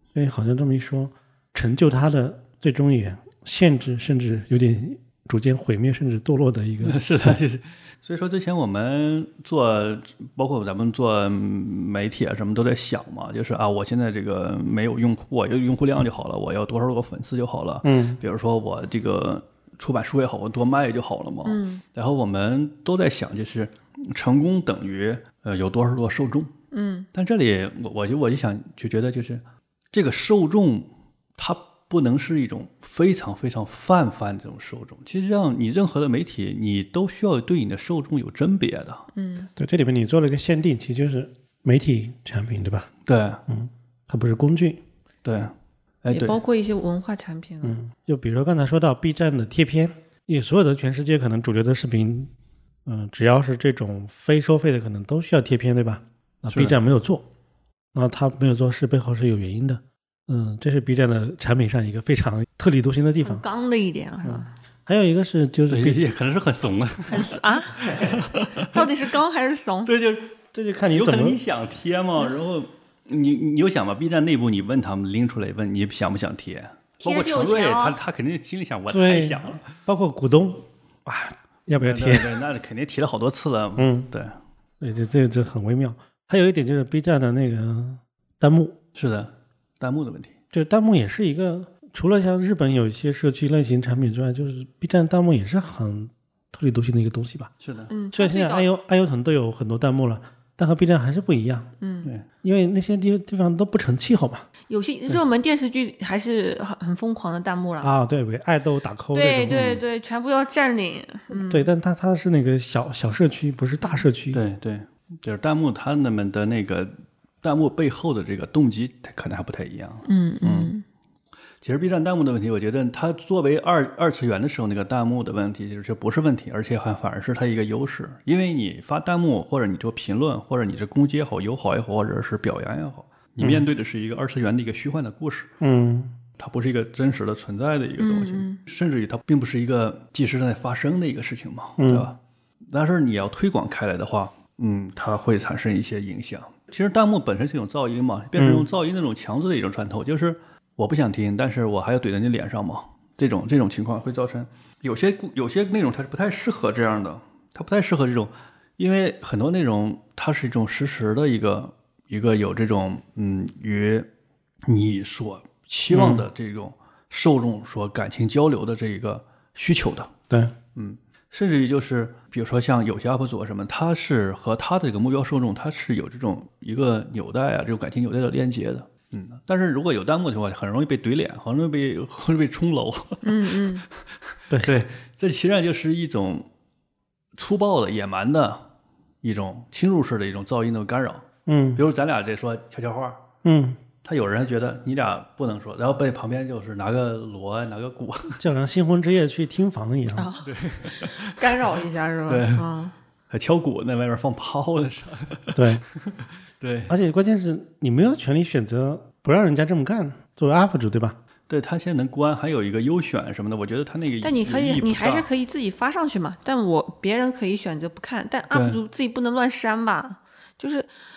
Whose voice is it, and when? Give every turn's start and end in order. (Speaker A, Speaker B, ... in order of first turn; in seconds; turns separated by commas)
Speaker A: 0.1-7.4, Speaker B: 6.8-26.5, Speaker A: 17.8-18.2, Speaker C: 21.4-21.8, Speaker C: 26.7-27.1, Speaker B: 27.1-39.0, Speaker C: 39.1-39.5, Speaker A: 39.5-42.9, Speaker B: 43.0-43.4, Speaker A: 43.5-44.8, Speaker B: 45.2-46.4, Speaker C: 46.1-47.8, Speaker A: 47.6-52.3, Speaker A: 52.9-57.3, Speaker B: 56.5-56.8, Speaker A: 57.9-63.4, Speaker C: 63.2-64.5, Speaker A: 64.2-66.0, Speaker B: 65.7-68.9, Speaker C: 67.1-69.9, Speaker B: 69.8-70.3, Speaker A: 70.5-71.4, Speaker B: 70.9-79.6, Speaker C: 77.0-78.0, Speaker A: 78.9-82.4, Speaker B: 81.7-84.3, Speaker A: 83.8-84.1, Speaker A: 84.8-88.8, Speaker B: 88.9-90.3, Speaker A: 90.5-97.5, Speaker B: 97.6-97.9, Speaker C: 97.9-98.7, Speaker A: 98.1-101.7, Speaker C: 101.8-102.1, Speaker A: 102.4-104.5, Speaker C: 104.7-107.9, Speaker A: 107.8-109.8, Speaker C: 109.1-111.7, Speaker A: 111.5-114.4, Speaker B: 114.3-120.7, Speaker C: 120.1-120.8, Speaker B: 121.6-135.5, Speaker A: 133.4-133.6, Speaker A: 135.6-136.2, Speaker B: 136.4-164.1, Speaker C: 138.0-138.6, Speaker A: 141.8-142.1, Speaker A: 148.4-148.7, Speaker B: 164.7-170.1, Speaker A: 165.9-166.3, Speaker B: 170.7-186.5, Speaker C: 183.2-183.8, Speaker B: 187.3-188.7, Speaker B: 189.2-193.2, Speaker A: 191.4-191.8, Speaker A: 193.4-193.8, Speaker B: 194.0-198.4, Speaker A: 198.4-200.3, Speaker C: 200.1-202.9, Speaker B: 200.4-202.6, Speaker B: 203.3-206.9, Speaker A: 205.5-205.8, Speaker A: 206.9-211.2, Speaker B: 211.5-215.3, Speaker C: 214.2-220.9, Speaker B: 218.5-218.8